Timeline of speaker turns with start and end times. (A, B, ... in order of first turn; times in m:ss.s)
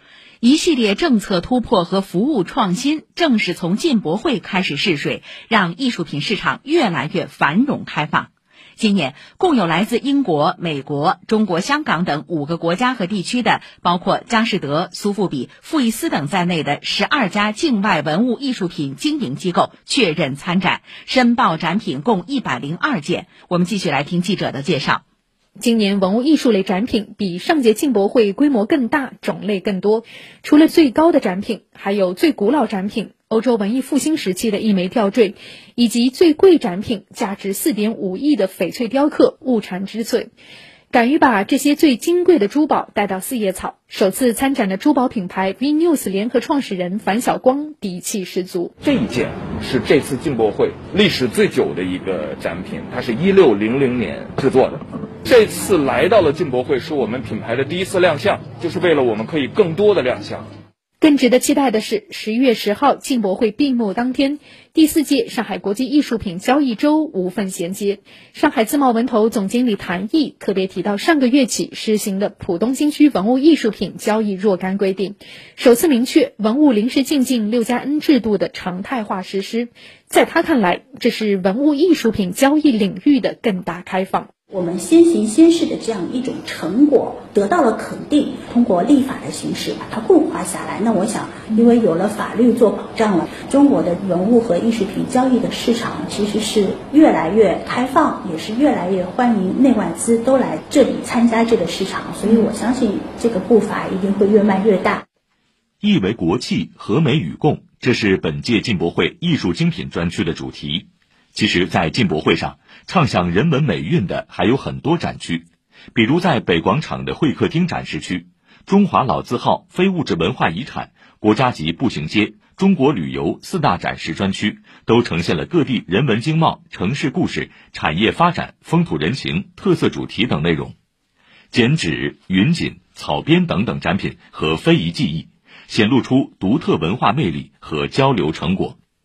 0:00.4-0:25.0 A
0:25.6-0:40.3 B
0:40.9-0:48.7 B
0:48.8-1:00.5 C
1:01.0-1:24.3 B
1:24.5-1:45.0 D
1:45.8-2:10.8 E
2:11.5-2:18.8 E